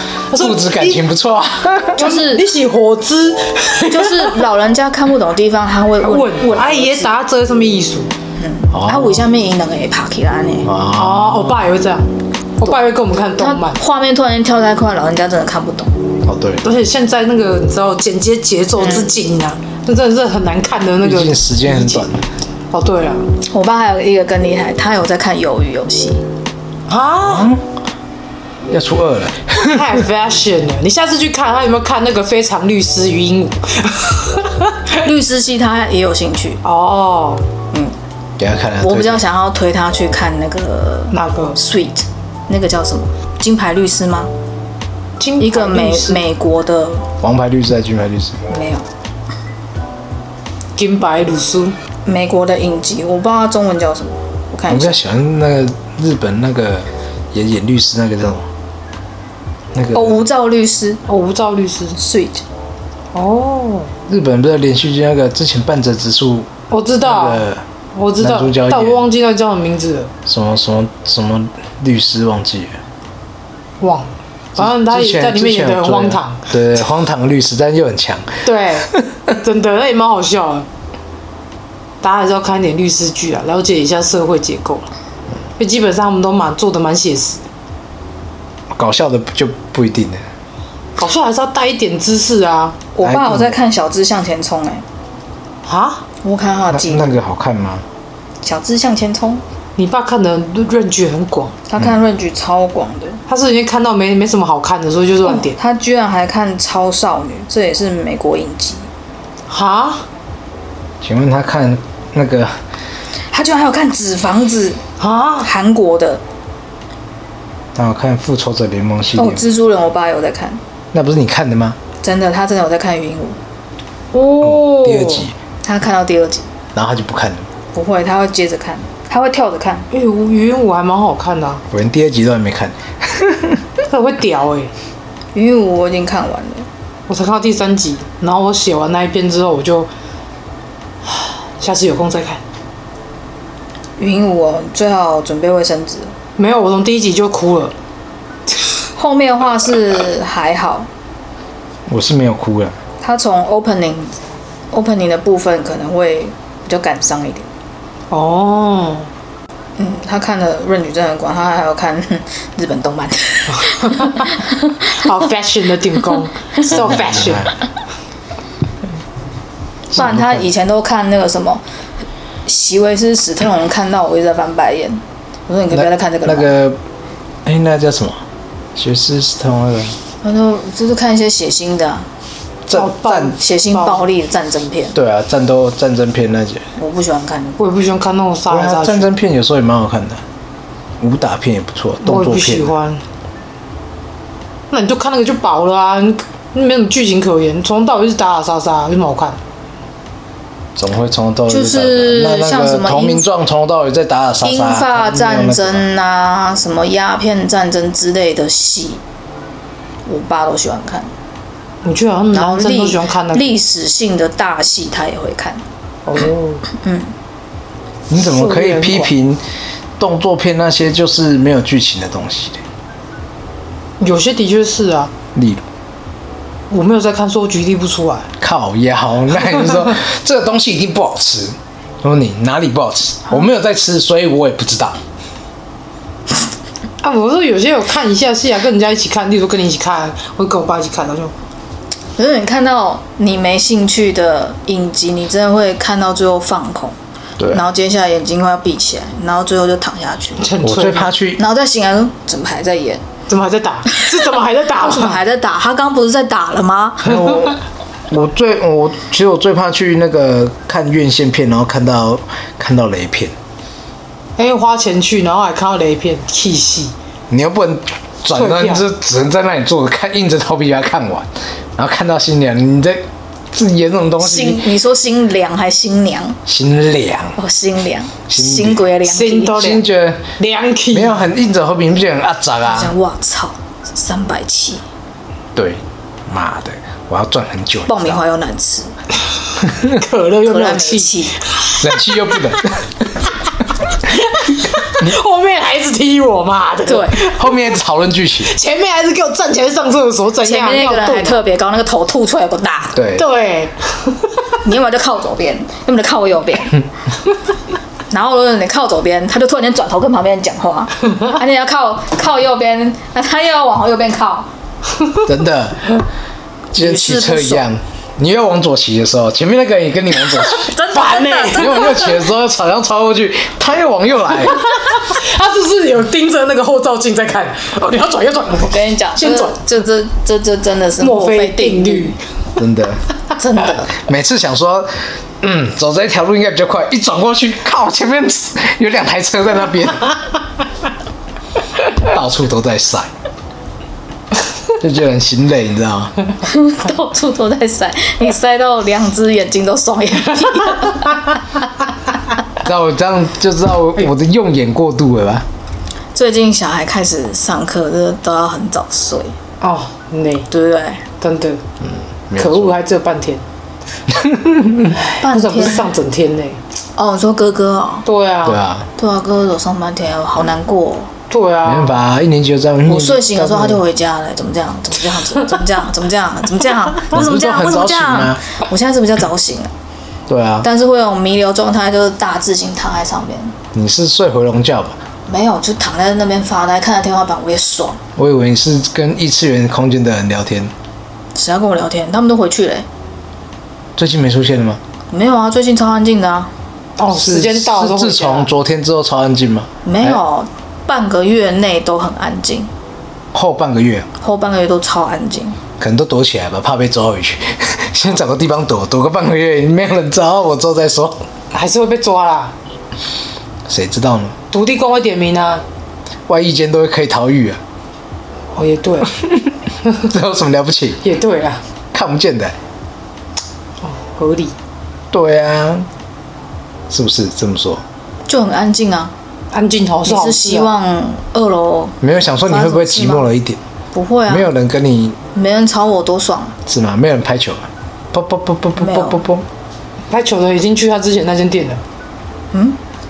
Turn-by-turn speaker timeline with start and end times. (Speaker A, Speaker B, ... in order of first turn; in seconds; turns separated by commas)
Speaker A: 0.3-1.0, Speaker B: 0.3-2.0, Speaker A: 1.9-4.4, Speaker C: 2.0-2.4, Speaker C: 3.9-7.2, Speaker A: 6.0-8.1, Speaker C: 8.4-10.7, Speaker B: 8.7-9.2, Speaker B: 10.6-11.6, Speaker A: 10.9-12.1, Speaker A: 12.6-13.8, Speaker C: 13.4-15.9, Speaker B: 16.2-16.6, Speaker A: 16.6-22.1, Speaker C: 18.8-19.2, Speaker B: 21.0-22.2, Speaker A: 22.7-23.2, Speaker C: 23.5-26.2, Speaker A: 26.9-27.5, Speaker B: 27.2-27.7, Speaker B: 28.7-30.0, Speaker A: 29.7-35.0, Speaker C: 35.0-36.6, Speaker A: 36.6-37.5, Speaker B: 38.4-39.2, Speaker C: 38.8-44.3, Speaker A: 41.1-41.6, Speaker A: 45.2-46.2, Speaker C: 45.4-47.1, Speaker B: 47.2-48.4, Speaker C: 48.5-48.9, Speaker A: 50.8-51.8, Speaker C: 52.1-55.0, Speaker B: 54.7-58.5, Speaker B: 59.7-60.2, Speaker C: 59.9-61.0, Speaker A: 61.1-62.0, Speaker C: 62.0-62.4, Speaker A: 63.1-63.9, Speaker B: 64.1-66.5, Speaker A: 66.7-70.1, Speaker B: 67.0-67.6, Speaker B: 68.2-69.1, Speaker B: 70.3-72.8, Speaker A: 73.8-76.5, Speaker B: 74.6-79.3, Speaker A: 78.4-80.7, Speaker A: 82.0-84.9, Speaker A: 85.6-87.4, Speaker B: 88.7-90.2, Speaker A: 91.0-92.8, Speaker C: 93.0-94.8, Speaker B: 93.0-93.6, Speaker A: 95.7-96.0, Speaker C: 96.2-97.2, Speaker B: 96.7-97.8, Speaker C: 98.4-99.4, Speaker A: 99.8-101.5, Speaker C: 101.7-103.2, Speaker A: 103.3-105.6, Speaker C: 105.2-108.9, Speaker A: 109.5-110.1, Speaker B: 111.0-112.5, Speaker C: 113.3-114.8, Speaker A: 115.0-115.5, Speaker C: 115.4-116.2, Speaker B: 117.8-119.4, Speaker C: 119.2-120.6, Speaker B: 120.9-121.8, Speaker C: 122.0-123.4, Speaker A: 124.1-125.3, Speaker B: 124.4-125.3, Speaker C: 125.6-126.5, Speaker B: 126.8-127.5, Speaker C: 127.7-129.9, Speaker A: 129.9-131.6, Speaker B: 131.7-133.6, Speaker A: 133.9-134.7, Speaker C: 135.3-136.7, Speaker A: 137.1-139.9, Speaker A: 141.1-142.4, Speaker C: 144.0-146.1, Speaker A: 146.4-147.7, Speaker C: 149.0-150.9, Speaker B: 151.9-152.8, Speaker C: 153.0-154.2, Speaker C: 154.7-157.5, Speaker A: 158.1-159.1, Speaker C: 159.8-165.1, Speaker A: 163.6-164.0, Speaker A: 165.0-167.5, Speaker C: 166.6-166.8, Speaker B: 166.7-167.5, Speaker B: 169.9-170.5, Speaker C: 169.9-171.6, Speaker C: 172.5-176.5, Speaker B: 175.7-176.8, Speaker B: 177.4-178.2, Speaker B: 178.8-180.0, Speaker C: 180.2-182.1, Speaker B: 182.7-183.4, Speaker A: 182.7-184.1, Speaker C: 183.4-184.9, Speaker B: 184.9-186.7, Speaker C: 186.8-187.6, Speaker A: 187.6-189.1, Speaker B: 188.5-190.2, Speaker B: 191.0-192.7, Speaker A: 192.0-193.0, Speaker A: 194.7-199.4, Speaker B: 200.8-205.8, Speaker C: 201.5-203.3, Speaker C: 204.4-209.0, Speaker C: 210.1-211.1, Speaker A: 211.8-213.6, Speaker C: 212.3-215.6, Speaker A: 216.1-216.7, Speaker C: 216.7-217.1, Speaker B: 218.1-219.4, Speaker A: 218.1-219.1, Speaker B: 220.0-222.6, Speaker A: 224.0-225.1, Speaker B: 225.3-225.6, Speaker A: 226.7-228.3, Speaker B: 228.4-235.0, Speaker A: 237.0-241.3, Speaker C: 242.2-247.0, Speaker C: 247.5-250.5, Speaker A: 250.4-251.1, Speaker B: 250.6-251.4, Speaker C: 251.4-253.0, Speaker A: 253.3-255.2, Speaker C: 254.8-257.5, Speaker B: 257.0-257.6, Speaker B: 258.1-263.3, Speaker A: 264.4-266.9, Speaker B: 267.3-274.7, Speaker A: 268.4-268.9, Speaker C: 274.2-276.4, Speaker B: 276.5-277.4, Speaker C: 277.4-279.6, Speaker B: 278.3-278.8, Speaker A: 279.1-281.2, Speaker B: 279.6-280.2, Speaker B: 280.9-282.9, Speaker C: 282.6-284.8, Speaker B: 285.6-288.2, Speaker C: 287.9-288.9, Speaker B: 289.6-290.0, Speaker A: 289.9-292.6, Speaker C: 290.4-291.4, Speaker B: 291.8-292.9, Speaker A: 294.1-297.6, Speaker C: 296.9-297.2, Speaker B: 297.2-298.5, Speaker A: 298.4-301.4, Speaker C: 300.4-303.0, Speaker B: 302.9-303.3, Speaker A: 303.2-304.4, Speaker C: 304.6-306.8, Speaker C: 308.1-314.5, Speaker B: 315.2-315.9, Speaker B: 316.7-320.7, Speaker C: 316.8-317.7, Speaker C: 320.4-322.2, Speaker A: 320.9-322.0, Speaker B: 321.5-324.6, Speaker A: 324.8-329.6, Speaker C: 328.6-332.2, Speaker A: 331.0-332.2, Speaker B: 332.6-333.0, Speaker C: 333.3-333.9, Speaker B: 333.9-340.2, Speaker B: 341.9-343.1, Speaker B: 344.8-346.1, Speaker C: 346.4-351.4, Speaker B: 352.6-355.5, Speaker C: 356.1-359.4, Speaker A: 359.6-360.5, Speaker C: 360.5-361.0, Speaker A: 361.2-361.6, Speaker B: 361.8-362.8, Speaker A: 362.4-363.4, Speaker B: 364.1-365.0, Speaker A: 364.9-366.6, Speaker C: 365.2-365.9, Speaker C: 367.0-368.1, Speaker A: 368.1-368.6, Speaker B: 368.4-368.9, Speaker C: 369.0-371.1, Speaker A: 371.3-372.0, Speaker B: 371.6-373.8, Speaker C: 372.9-379.7, Speaker B: 377.1-378.4, Speaker B: 380.3-380.7, Speaker C: 380.6-383.6, Speaker B: 383.7-385.0, Speaker C: 385.3-388.0, Speaker B: 388.2-390.7, Speaker C: 391.4-392.9, Speaker B: 394.0-394.8, Speaker C: 395.1-396.5, Speaker A: 397.0-398.5, Speaker B: 397.1-400.2, Speaker C: 399.9-402.7, Speaker B: 403.3-404.1, Speaker C: 404.2-405.6, Speaker B: 405.8-411.2, Speaker A: 411.5-412.5, Speaker B: 413.7-414.4, Speaker A: 414.5-415.6, Speaker B: 416.3-417.6, Speaker A: 418.6-419.1, Speaker B: 420.0-421.0, Speaker A: 421.0-421.6, Speaker B: 421.9-422.6, Speaker A: 423.8-424.5, Speaker B: 425.1-425.9, Speaker B: 426.9-427.8, Speaker C: 428.3-429.1, Speaker A: 429.5-430.7, Speaker C: 430.1-433.3, Speaker B: 432.0-433.6, Speaker C: 433.9-434.5, Speaker B: 434.3-435.2, Speaker C: 435.3-436.6, Speaker B: 436.7-439.5, Speaker C: 438.8-439.2, Speaker A: 440.1-441.8, Speaker C: 442.5-442.8